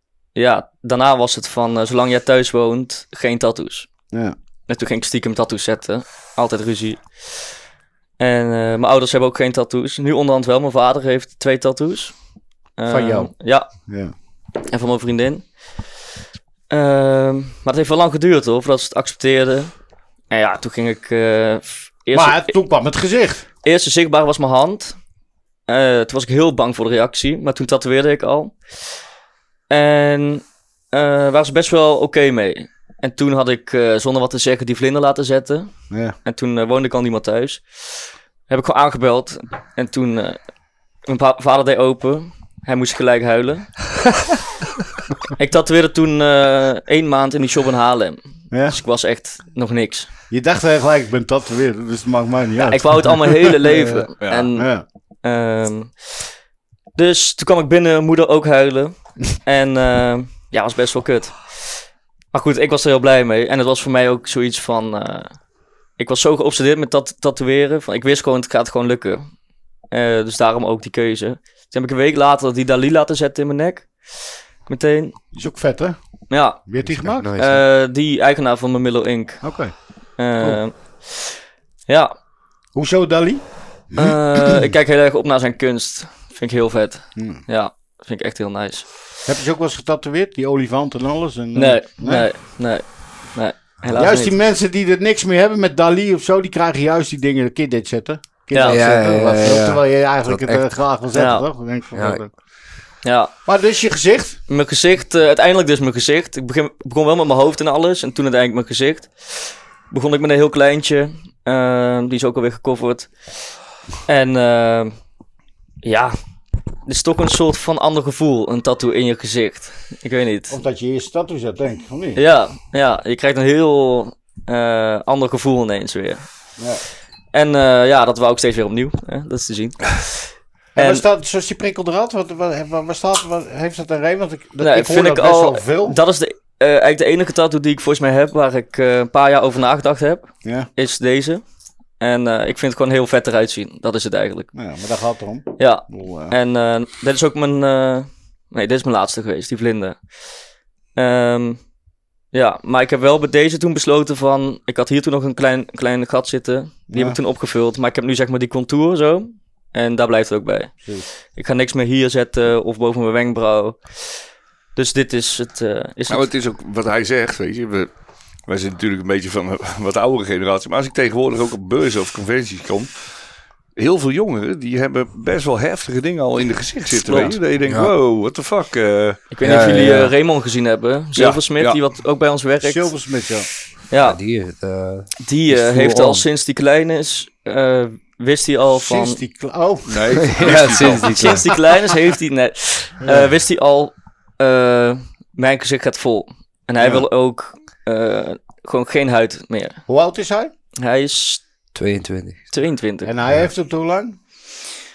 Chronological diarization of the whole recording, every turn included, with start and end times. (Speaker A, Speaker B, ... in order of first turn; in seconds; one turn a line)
Speaker A: 0.3-3.9
Speaker A: 4.7-7.5
Speaker A: 8.2-12.2
Speaker A: 12.8-13.7
Speaker B: 12.9-14.1
Speaker A: 14.6-15.5
Speaker A: 16.7-19.7
Speaker A: 20.3-22.6
Speaker B: 22.1-23.4
Speaker A: 23.6-25.0
Speaker A: 25.7-28.6
Speaker A: 29.7-35.7
Speaker B: 35.9-36.1
Speaker A: 36.2-40.4
Speaker A: 41.1-43.9
Speaker A: 45.4-50.1
Speaker B: 48.5-48.8
Speaker B: 50.3-54.8
Speaker A: 52.6-54.7
Speaker C: 54.2-54.5
Speaker A: 55.2-56.3
Speaker A: 57.0-65.3
Speaker A: 66.0-69.2
Speaker A: 69.9-75.2
Speaker B: 75.3-76.0
Speaker A: 76.3-76.6
Speaker B: 76.7-77.3
Speaker D: 76.9-77.6
Speaker A: 77.4-79.4
Speaker B: 79.4-79.8
Speaker A: 80.2-81.4
Speaker B: 82.8-84.6
Speaker A: 84.0-88.9
Speaker B: 87.2-87.4
Speaker B: 89.3-92.3
Speaker A: 91.5-94.3
Speaker B: 94.0-102.3
Speaker A: 98.5-98.8
Speaker D: 98.7-100.6
Speaker A: 101.1-101.5
Speaker D: 102.0-102.2
Speaker A: 103.0-103.3
Speaker B: 103.5-104.4
Speaker A: 104.5-113.3
Speaker A: 114.1-114.9
Speaker A: 115.8-116.2
Speaker A: 116.9-120.6
Speaker B: 120.5-122.2
Speaker A: 122.2-126.2
Speaker B: 126.6-126.8
Speaker A: 127.3-131.0
Speaker B: 130.8-136.0
Speaker A: 134.6-141.4
Speaker A: 142.0-144.5
Speaker B: 144.5-146.3
Speaker A: 145.6-150.0
Speaker A: 150.9-151.6
Speaker A: 152.3-164.2
Speaker B: 156.9-157.2
Speaker A: 164.8-166.3
Speaker C: 166.1-167.9
Speaker C: 168.5-172.9
Speaker C: 173.8-179.2
Speaker A: 177.0-177.4
Speaker D: 177.7-177.9
Speaker A: 179.3-182.9
Speaker D: 179.4-180.1
Speaker C: 181.2-181.8
Speaker B: 182.6-183.5
Speaker A: 183.9-184.2
Speaker D: 184.0-186.2
Speaker A: 185.2-189.2
Speaker B: 188.7-190.1
Speaker C: 189.9-191.2
Speaker D: 190.1-191.6
Speaker A: 191.0-199.8
Speaker B: 193.0-193.3
Speaker B: 199.9-200.5
Speaker A: 200.8-201.4
Speaker D: 201.8-202.4
Speaker A: 202.5-203.1
Speaker B: 203.0-204.2